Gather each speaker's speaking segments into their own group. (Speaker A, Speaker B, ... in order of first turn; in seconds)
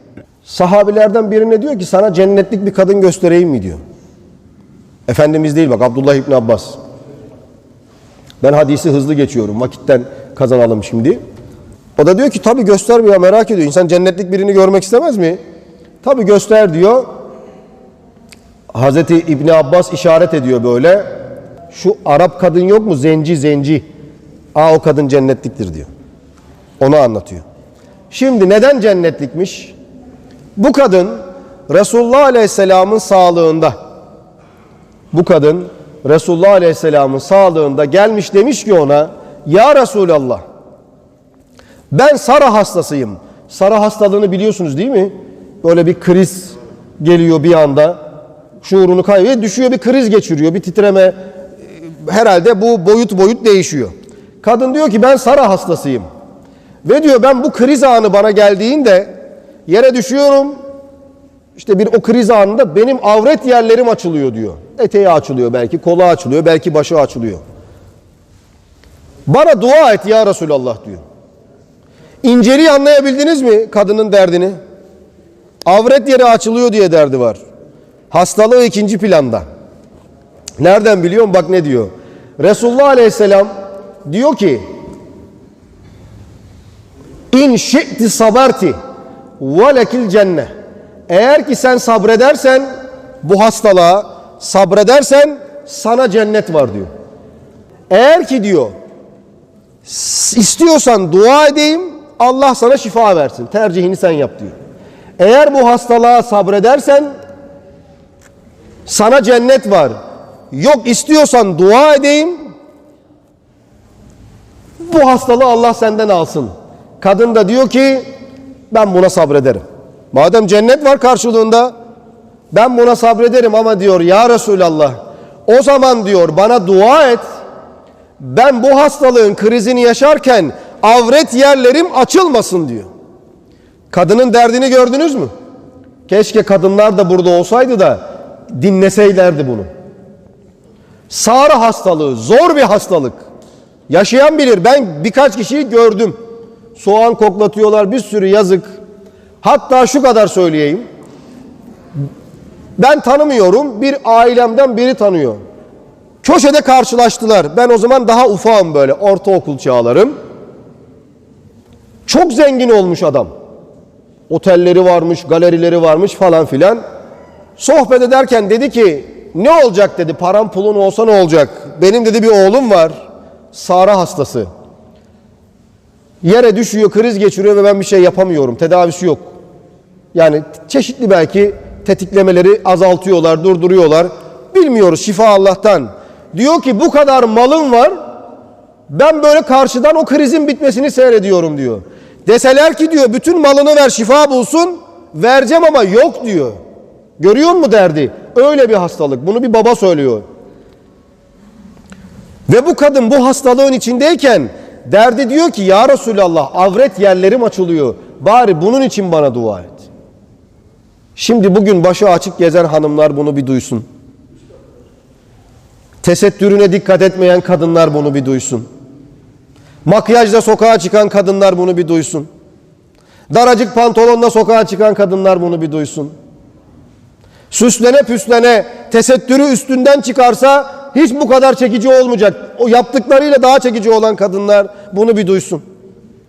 Speaker A: 0.5-3.8, 5.1-6.8, 8.4-11.2, 12.0-15.4, 16.0-17.1, 18.7-21.1, 21.7-23.8, 24.5-25.9, 26.8-27.4, 28.1-29.7, 30.6-33.8, 35.1-40.4, 41.9-45.1, 45.6-48.0, 48.6-51.1, 51.8-56.0, 56.8-59.1, 59.7-60.6, 61.6-67.4, 69.3-71.0, 72.2-74.6, 75.6-77.4, 78.1-79.4, 80.6-83.5, 84.1-84.6, 87.3-88.8, 89.4-90.5, 91.1-92.7, 93.2-96.9, 97.9-98.7, 99.9-104.5, 105.2-107.1, 108.9-109.9, 110.5-112.4, 114.8-118.0, 118.7-121.7, 122.5-127.2, 128.2-132.9, 133.9-135.3, 136.1-139.7, 141.1-143.2, 143.9-146.2, 146.8-148.8, 149.4-150.8, 152.8-155.4, 156.2-160.2, 162.1-163.3, 164.3-166.8, 167.6-173.0, 173.5-174.5, 176.2-179.3, 180.1-188.0, 188.9-196.6, 197.2-200.2, 202.5-209.8, 211.2-213.8, 216.0-218.7, 219.8-222.3, 223.3-226.1, 227.5-235.6